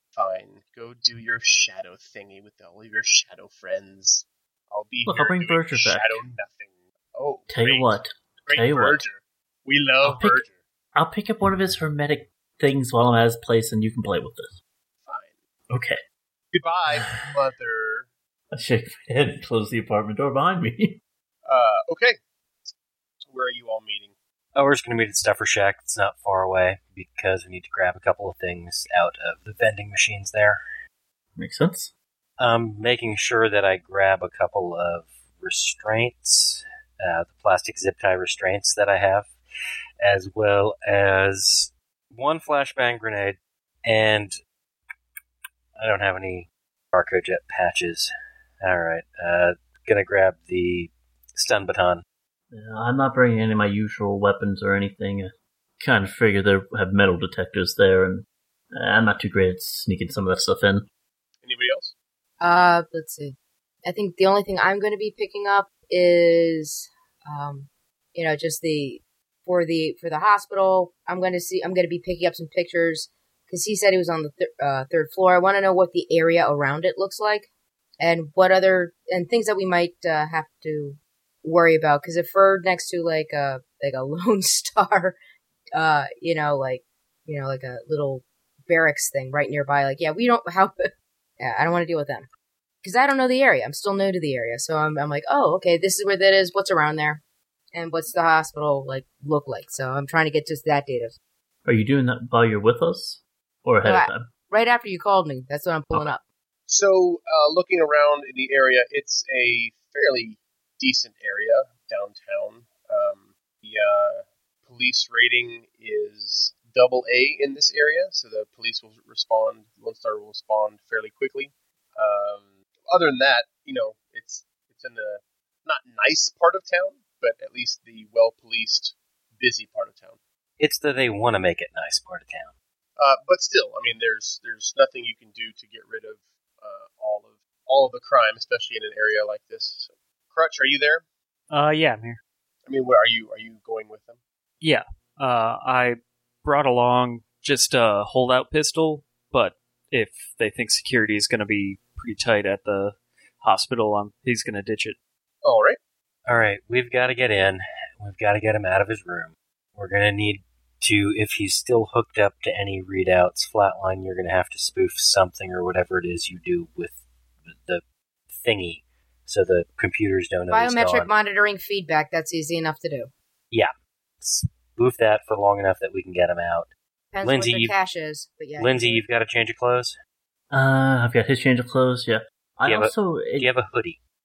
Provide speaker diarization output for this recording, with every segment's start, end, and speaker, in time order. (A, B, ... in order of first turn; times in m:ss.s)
0:00.1-0:10.6 A
0:05.1-0:06.2 B
0:07.5-0:09.0 B
0:10.0-0:10.4 B
0:11.0-0:14.6 B
0:15.0-0:15.4 A
0:15.7-0:16.0 B
0:16.5-0:18.1 A
0:16.9-0:17.3 B
0:18.5-0:21.0 B
0:21.5-0:22.2 A
0:23.3-0:24.1 A
0:24.6-0:30.6 C
0:31.4-0:31.9 B
0:32.4-0:39.3 C
0:40.0-0:44.4 C
0:45.8-0:48.1 C
0:48.6-0:52.0 C
0:52.5-1:00.9 B
1:01.4-1:01.9 A
1:02.4-1:17.5 D
1:18.0-1:25.2 D
1:25.8-1:32.3 D
1:32.8-1:37.2 D
1:37.7-1:41.1 D
1:41.6-1:44.3 B
1:43.8-1:46.2 D
1:46.7-2:10.2 A
2:10.6-2:12.5 C
2:13.0-2:21.0 A
2:21.5-2:22.2 E
2:22.6-2:24.2 A
2:24.6-2:35.0 E
2:35.4-2:35.8 A
2:36.3-2:47.0 C
2:47.5-2:51.1 C
2:50.5-2:53.1 D
2:53.5-2:56.7 C
2:57.1-2:59.0 D
2:57.2-2:57.8 C
2:58.6-3:00.0 C
3:00.5-3:03.5 B
3:02.7-3:04.0 C